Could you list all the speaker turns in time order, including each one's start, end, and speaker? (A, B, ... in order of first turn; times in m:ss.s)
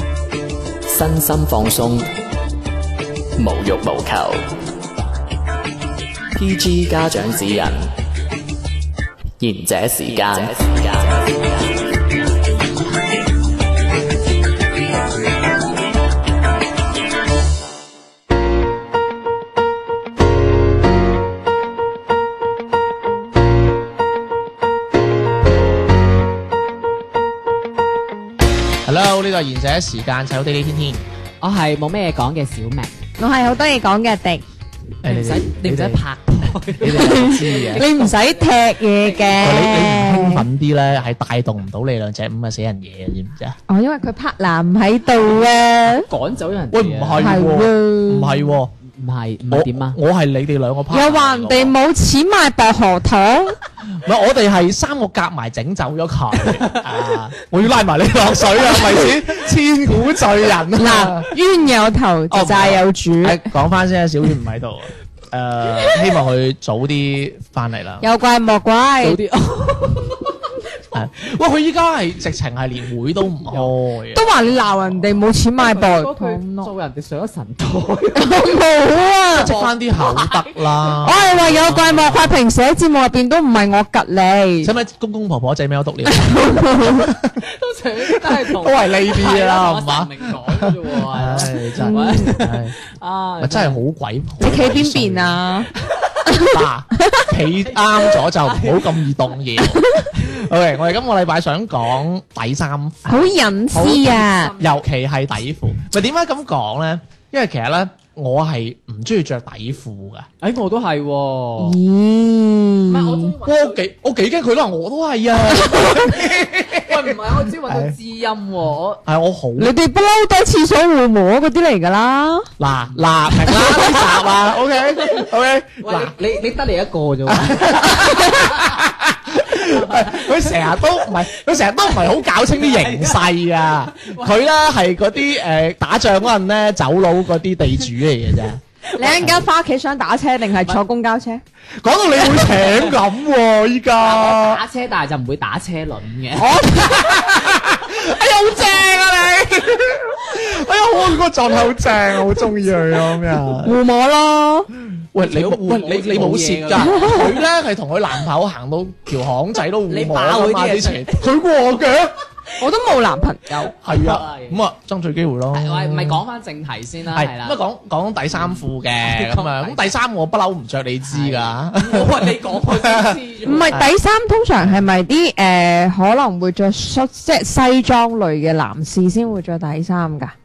0:00.9-0:02.1 A
0:03.4-0:04.5 A
0:06.4-0:07.9 A
0:09.4-0:11.8 A
0:28.8-0:31.0 B
0:31.4-0:32.9 C
0:33.2-0:34.4 D
0:35.0-0:36.0 B
0:35.0-0:38.4 C
0:36.8-0:37.9 B
0:36.9-0:40.4 D
0:39.0-0:39.8 C
0:39.4-0:43.6 B
0:43.7-0:46.1 D
0:46.0-0:47.4 C
0:46.7-0:48.7 B
0:47.2-0:48.5 D
0:48.8-0:50.0 C
0:49.5-0:51.8 B
0:50.9-0:53.6 D
0:53.9-1:01.3 B
1:00.8-1:03.5 D
1:02.3-1:08.1 B
1:08.0-1:09.2 D
1:09.0-1:10.5 C
1:10.9-1:15.2 B
1:14.1-1:16.7 D
1:15.6-1:18.5 C
1:18.2-1:19.5 D
1:19.3-1:22.4 B
1:19.4-1:20.9 C
1:21.0-1:24.7 D
1:24.6-1:27.4 B
1:26.1-1:27.1 D
1:27.4-1:33.8 C
1:28.2-1:32.8 B
1:31.8-1:32.3 D
1:33.4-1:35.4 B
1:34.4-1:35.7 D
1:35.9-1:36.3 C
1:36.3-1:37.2 D
1:36.4-1:50.3 B
1:37.6-1:39.4 C
1:39.7-1:40.0 D
1:40.1-1:40.4 C
1:43.1-1:44.5 D
1:43.7-1:44.7 C
1:50.4-1:51.8 C
1:51.6-1:53.3 D
1:52.9-1:53.8 C
1:53.4-1:58.0 B
1:55.6-1:56.0 D
1:56.6-1:59.0 C
1:59.0-1:59.7 B
1:59.6-2:02.5 D
2:02.6-2:06.1 B
2:03.5-2:04.0 D
2:05.0-2:05.3 C
2:05.8-2:08.8 C
2:07.3-2:19.4 B
2:09.6-2:14.5 C
2:18.9-2:19.4 C
2:19.0-2:21.4 D
2:21.8-2:24.6 B
2:22.3-2:23.0 C
2:24.0-2:26.5 C
2:26.4-2:27.3 D
2:26.8-2:33.8 B
2:33.6-2:34.7 D
2:35.0-2:42.2 B
2:35.2-2:37.4 C
2:36.8-2:37.3 D
2:39.9-2:41.3 C
2:42.6-2:43.7 D
2:43.8-2:46.2 B
2:43.9-2:44.6 C
2:45.5-2:47.6 C
2:47.1-2:53.9 B
2:48.3-2:49.9 C
2:51.1-2:53.9 C
2:53.4-3:00.3 D
2:54.6-2:54.9 B